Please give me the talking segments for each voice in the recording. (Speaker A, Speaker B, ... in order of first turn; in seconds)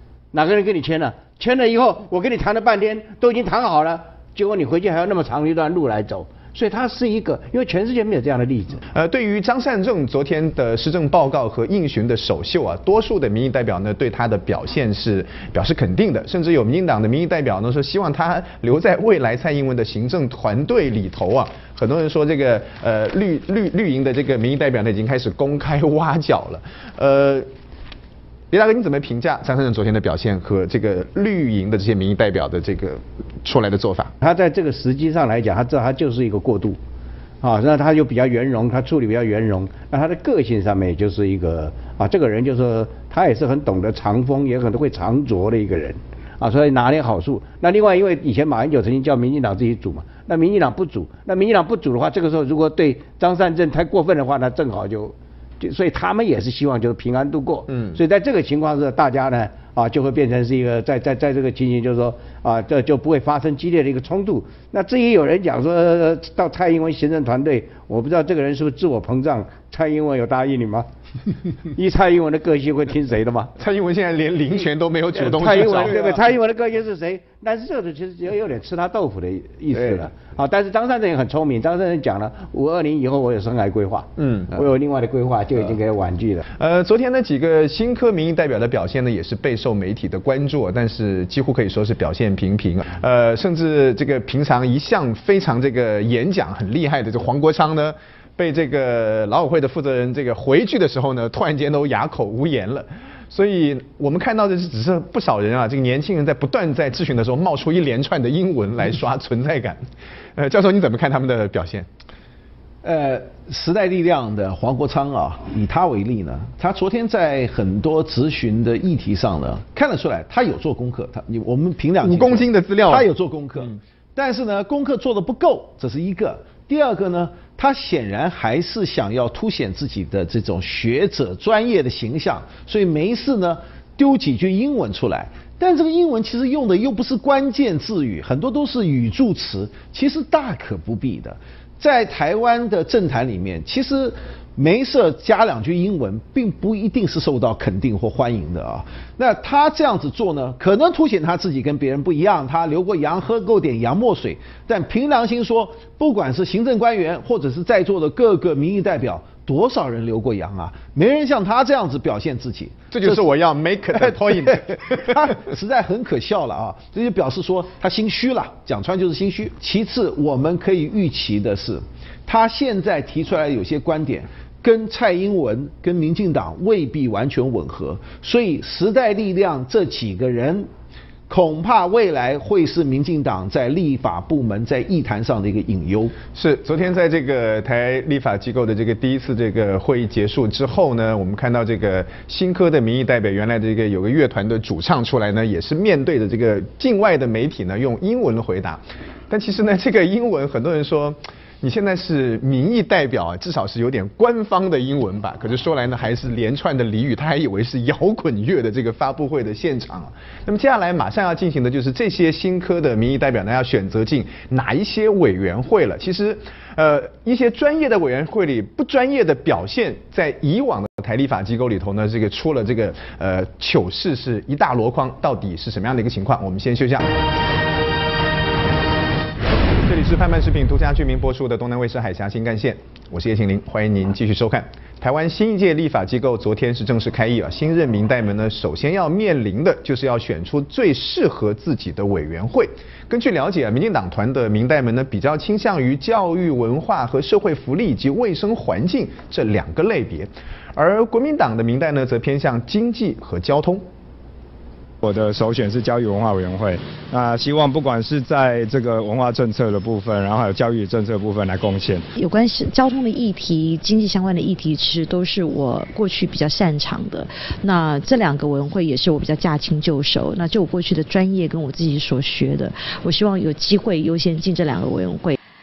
Speaker A: 0.3-8.8, 34.2-36.8, 37.4-70.9, 71.7-73.5, 75.1-86.5
Speaker B: 8.9-27.5, 28.5-34.1, 57.7-58.0, 73.6-76.2, 79.8-80.1, 84.2-84.6, 86.6-109.8, 110.4-111.9, 122.0-123.1, 162.9-165.0, 186.3-227.1, 229.8-253.9
Speaker C: 112.8-163.2, 164.0-180.7, 181.3-186.2
Speaker D: 255.0-262.1
Speaker E: 262.2-275.4